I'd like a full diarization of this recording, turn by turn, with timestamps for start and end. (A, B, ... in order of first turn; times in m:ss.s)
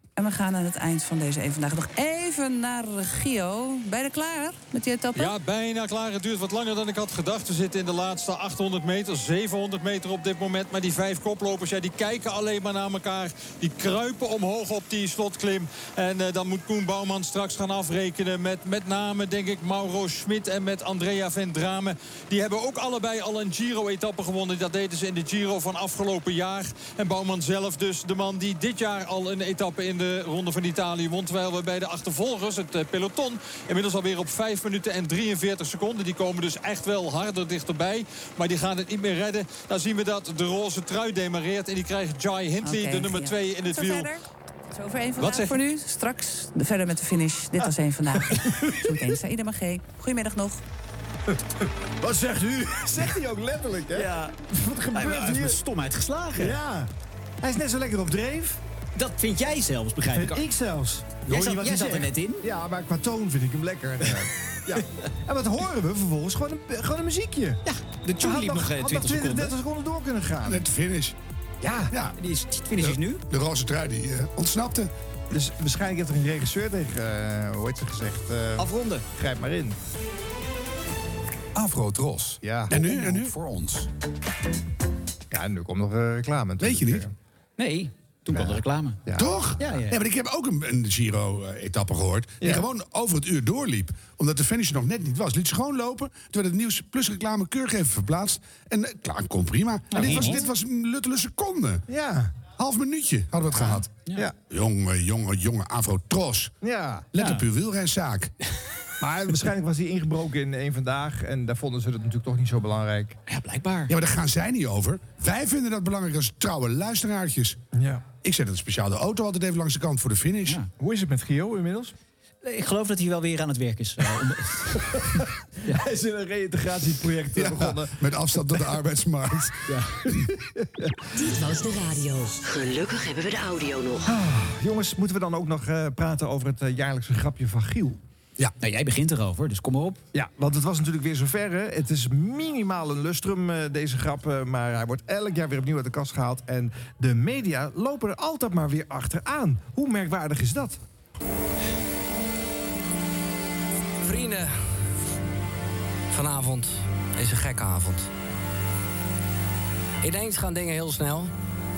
0:00.2-0:05.3 A
0:05.2-0:44.1 B
0:42.6-0:44.2 A
0:44.7-0:50.6 A
0:45.2-0:45.6 B
0:52.0-0:55.6 C
0:54.0-0:56.6 D
0:56.4-0:56.9 C
0:57.4-0:58.6 C
0:59.0-1:00.4 D
1:00.1-1:07.6 C
1:01.3-1:02.4 D
1:07.6-1:09.6 D
1:08.2-1:10.6 C
1:10.4-1:11.2 E
1:11.6-1:11.9 C
1:11.9-1:12.2 E
1:12.2-1:13.2 D
1:12.8-1:14.9 E
1:15.3-1:19.8 C
1:18.6-1:19.0 D
1:22.4-1:22.8 C
1:22.7-1:23.4 E
1:22.8-1:23.8 D
1:25.3-1:27.1 C
1:26.6-1:27.0 E
1:27.6-1:29.0 D
1:28.3-1:29.3 C
1:29.2-1:41.8 E
1:29.6-1:30.0 D
1:39.9-1:40.4 D
1:40.0-1:40.4 C
1:41.9-1:42.3 C
1:42.6-1:43.9 E
1:43.6-1:44.2 D
1:44.5-1:46.5 E
1:46.6-1:47.1 C
1:47.1-1:48.3 E
1:47.2-1:47.4 D
1:49.0-1:53.2 C
1:53.3-1:53.9 D
1:53.9-1:57.6 E
1:57.7-1:58.0 C
1:58.2-2:00.6 E
2:00.8-2:01.9 C
2:02.4-2:05.2 D
2:05.6-2:08.0 C
2:07.4-2:09.6 E
2:10.0-2:10.9 C
2:11.2-2:14.1 F
2:14.0-2:18.0 C
2:18.6-2:20.0 D
2:20.1-2:30.8 C
2:34.0-2:34.6 G
2:36.1-2:38.1 G
2:40.0-2:41.3 G